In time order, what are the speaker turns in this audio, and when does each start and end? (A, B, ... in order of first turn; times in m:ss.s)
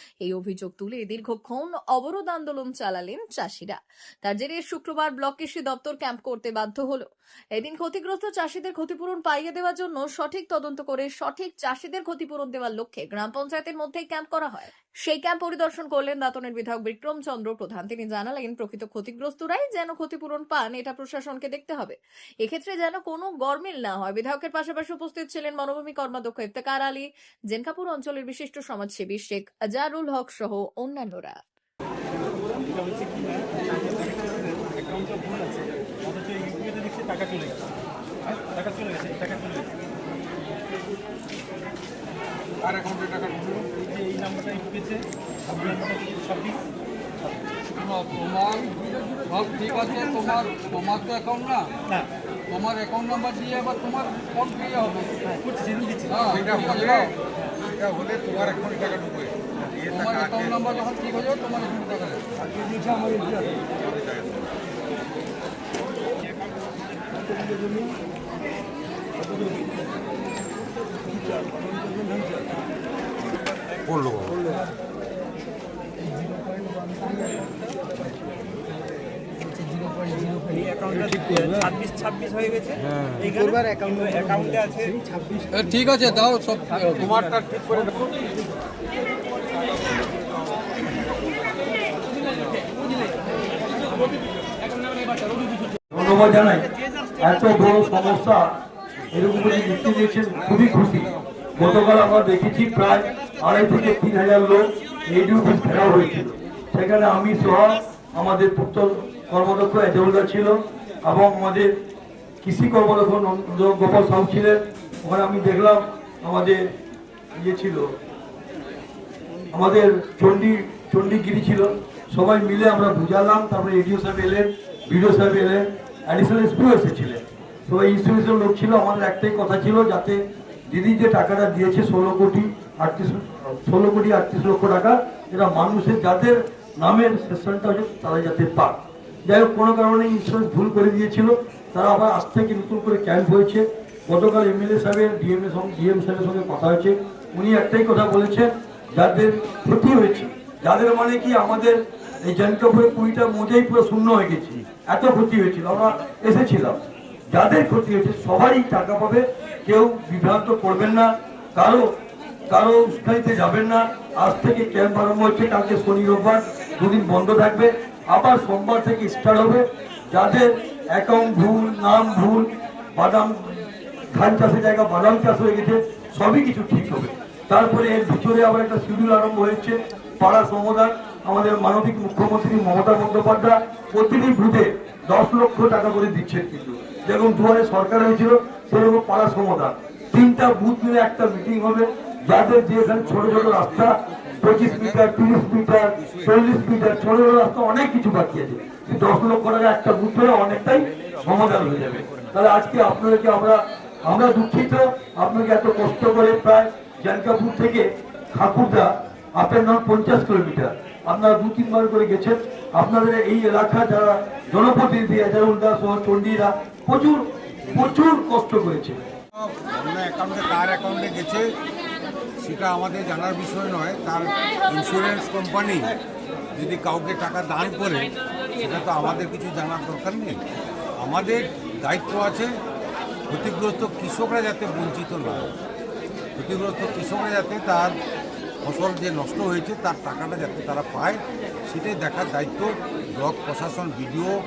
0:00.2-0:31.4 A
0:36.8-0:37.2 B
0:38.5-0:39.6 B
0:43.5-0:45.0 B
0:45.5-0:46.6 B
0:47.8-0:51.7 C
0:52.5-0:55.1 C
0:56.1-0:57.1 C
0:56.2-1:00.6 D
0:59.9-1:02.2 C
1:02.4-1:04.5 D
1:13.8-1:14.5 D
1:22.2-1:22.5 B
1:24.1-1:24.8 B
1:25.5-1:27.5 C
1:35.9-1:36.6 E
1:37.2-1:38.6 E
1:39.1-1:51.7 E
1:52.4-1:56.6 E
1:57.4-1:57.8 E
1:59.5-2:36.8 E
2:37.3-2:41.9 E
2:42.5-3:39.0 E
3:12.7-3:15.1 D
3:15.9-3:16.4 D
3:37.6-3:38.0 D
3:39.3-3:41.4 D
3:42.4-3:45.9 D
3:46.5-3:50.4 D
3:51.0-3:52.5 D
3:53.3-3:55.5 D
3:56.4-3:57.9 D
3:58.6-4:04.3 D